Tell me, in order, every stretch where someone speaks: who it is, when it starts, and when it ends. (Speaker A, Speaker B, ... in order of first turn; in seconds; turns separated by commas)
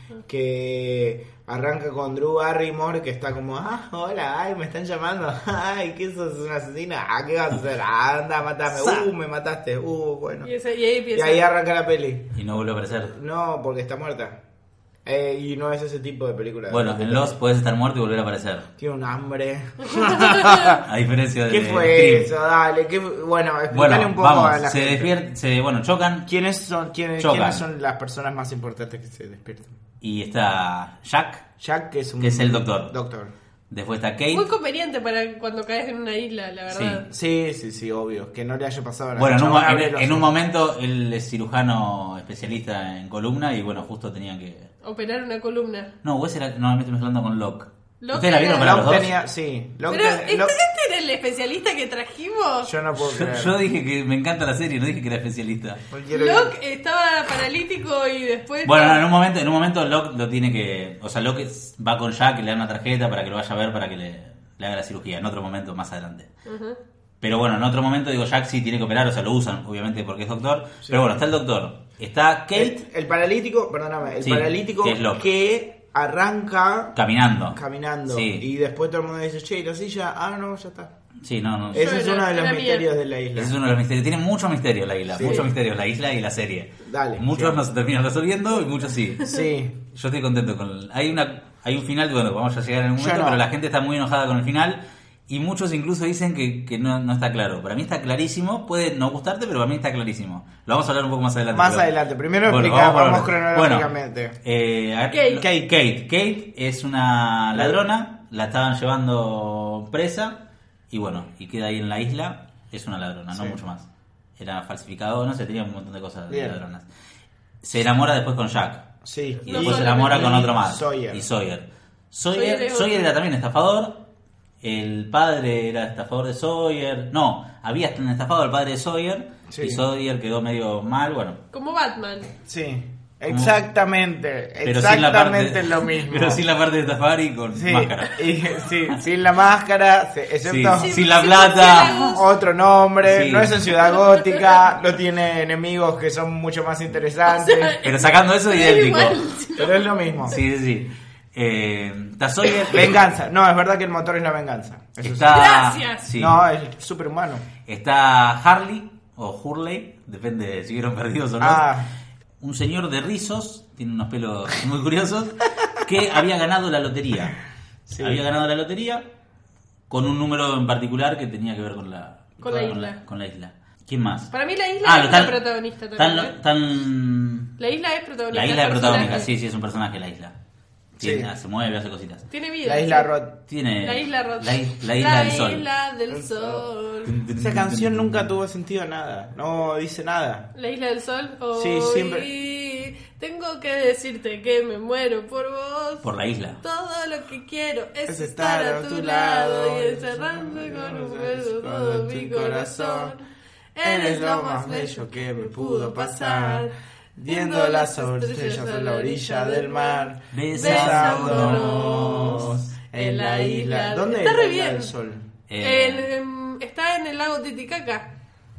Speaker A: 0.3-10.5, Speaker B: 8.7-9.1, Speaker C: 10.4-11.4, Speaker A: 11.1-12.3, Speaker B: 12.3-13.1, Speaker A: 13.1-14.4, Speaker A: 15.0-17.4, Speaker B: 16.7-18.7, Speaker A: 18.8-20.8, Speaker C: 19.9-20.8, Speaker B: 20.9-22.3, Speaker A: 21.5-25.1, Speaker B: 23.7-26.3, Speaker A: 26.3-29.7, Speaker B: 27.2-27.6, Speaker B: 30.0-31.4, Speaker A: 31.6-33.3, Speaker B: 32.2-32.9, Speaker B: 33.7-34.5, Speaker C: 34.3-37.1, Speaker B: 36.7-37.0, Speaker A: 37.1-40.3, Speaker B: 39.1-44.7, Speaker C: 44.8-45.9, Speaker B: 46.0-49.1, Speaker C: 48.0-48.9, Speaker A: 48.6-50.5, Speaker C: 49.9-52.7, Speaker A: 52.6-53.5, Speaker B: 53.0-55.8, Speaker A: 55.9-56.5, Speaker C: 56.1-59.0, Speaker B: 58.6-66.3, Speaker C: 66.5-66.8, Speaker B: 67.2-72.8, Speaker A: 70.8-71.2, Speaker A: 72.5-77.0, Speaker B: 74.2-75.2, Speaker B: 76.9-78.4, Speaker A: 77.5-80.9, Speaker B: 81.2-81.9, Speaker A: 81.7-83.5, Speaker C: 81.7-82.8, Speaker B: 83.3-89.4, Speaker A: 85.1-85.5, Speaker A: 86.8-87.6, Speaker A: 89.2-89.8, Speaker B: 89.9-101.9, Speaker A: 93.0-93.4, Speaker A: 101.5-104.4, Speaker B: 102.5-103.9, Speaker B: 104.4-110.4, Speaker C: 105.1-105.4, Speaker A: 105.4-105.7, Speaker A: 107.5-107.8, Speaker B: 110.9-116.9, Speaker A: 113.3-113.6, Speaker A: 116.3-116.6, Speaker B: 117.6-118.9, Speaker A: 119.0-121.2, Speaker C: 119.5-120.4, Speaker B: 119.5-124.0, Speaker C: 122.3-123.1, Speaker B: 124.6-131.4, Speaker A: 129.5-129.8, Speaker C: 131.5-132.3, Speaker A: 132.4-136.4, Speaker B: 133.3-133.5, Speaker B: 134.6-138.3, Speaker A: 137.5-141.0, Speaker B: 140.4-142.2, Speaker C: 140.8-142.2, Speaker A: 141.9-147.8, Speaker B: 143.0-143.6, Speaker C: 144.1-144.4, Speaker C: 147.2-149.9, Speaker B: 147.8-149.2, Speaker A: 149.6-150.4, Speaker B: 150.3-152.9, Speaker A: 152.7-155.5, Speaker B: 155.0-156.4, Speaker C: 155.3-156.0, Speaker A: 156.1-157.4, Speaker B: 157.7-161.7, Speaker A: 161.4-161.9, Speaker B: 162.4-167.4, Speaker A: 167.9-168.2, Speaker B: 168.0-169.1, Speaker B: 169.9-174.3, Speaker C: 172.4-173.0, Speaker A: 172.5-172.7, Speaker C: 174.3-176.3, Speaker B: 174.8-175.4, Speaker B: 176.0-177.5, Speaker C: 177.6-179.3, Speaker B: 178.3-180.3, Speaker A: 178.9-179.2, Speaker A: 181.0-181.3, Speaker B: 181.0-182.2, Speaker C: 182.3-183.1, Speaker A: 182.6-183.4, Speaker B: 183.5-185.7, Speaker C: 183.8-187.1, Speaker A: 186.1-186.6, Speaker B: 187.1-188.3, Speaker A: 187.3-190.5, Speaker C: 190.5-196.1, Speaker A: 191.5-192.3, Speaker B: 196.0-196.6, Speaker C: 196.6-203.2, Speaker A: 198.1-203.2, Speaker C: 203.7-206.7, Speaker A: 203.8-215.3, Speaker C: 207.3-214.9, Speaker B: 210.3-212.6, Speaker B: 215.5-216.1, Speaker C: 215.6-218.1